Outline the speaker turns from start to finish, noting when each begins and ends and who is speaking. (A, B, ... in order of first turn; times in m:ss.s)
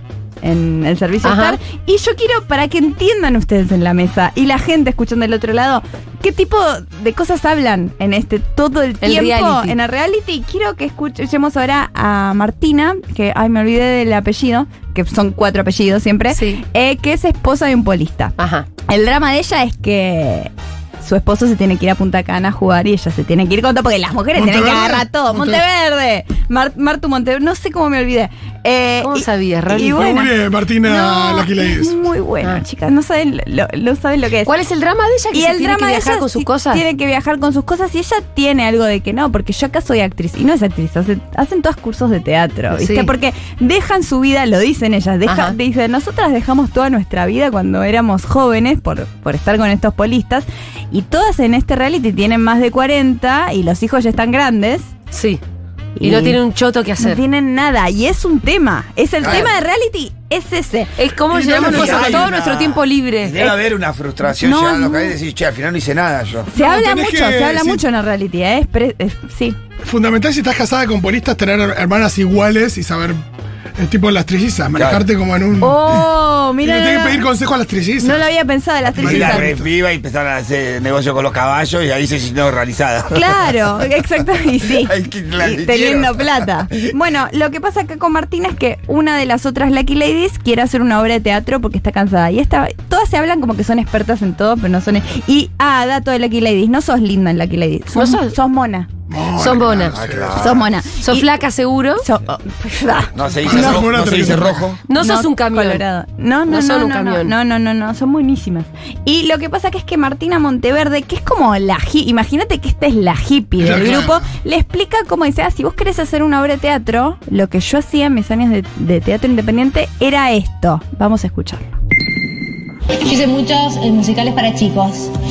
0:00.4-0:18.3 A
0:01.2-0:01.6 B
0:09.0-0:09.7 B
0:16.3-0:16.6 B
0:18.4-0:18.7 B
0:18.9-0:30.3 A
0:24.3-0:25.6 C
0:29.0-0:30.0 B
0:29.9-0:32.0 C
0:30.8-0:34.5 A
0:34.4-0:36.8 B
0:35.3-0:54.9 A
0:42.7-0:43.1 B
0:45.2-0:45.5 B
0:55.1-0:55.4 B
0:56.0-0:56.4 A
0:56.0-0:57.2 B
0:57.0-1:00.9 A
0:59.2-0:59.5 D
1:01.0-1:03.5 B
1:01.3-1:02.3 C
1:01.6-1:02.0 A
1:01.6-1:06.5 D
1:04.3-1:05.1 A
1:06.5-1:09.6 A
1:06.5-1:07.8 C
1:09.8-1:13.2 C
1:13.8-1:16.0 C
1:14.7-1:15.0 D
1:15.6-1:17.3 A
1:16.6-1:18.2 C
1:18.0-1:19.6 A
1:19.0-1:19.6 C
1:19.0-1:23.8 D
1:23.1-1:38.9 A
1:24.6-1:26.7 D
1:37.9-1:38.3 B
1:39.1-1:40.4 C
1:39.4-1:39.9 B
1:39.9-1:40.7 D
1:40.4-1:41.3 A
1:41.0-1:42.0 B
1:42.0-1:43.9 A
1:43.1-1:44.8 D
1:43.4-1:44.7 C
1:44.9-1:45.8 B
1:45.0-2:01.7 A
1:46.5-1:47.3 B
1:53.6-1:54.2 C
2:03.0-2:05.1 E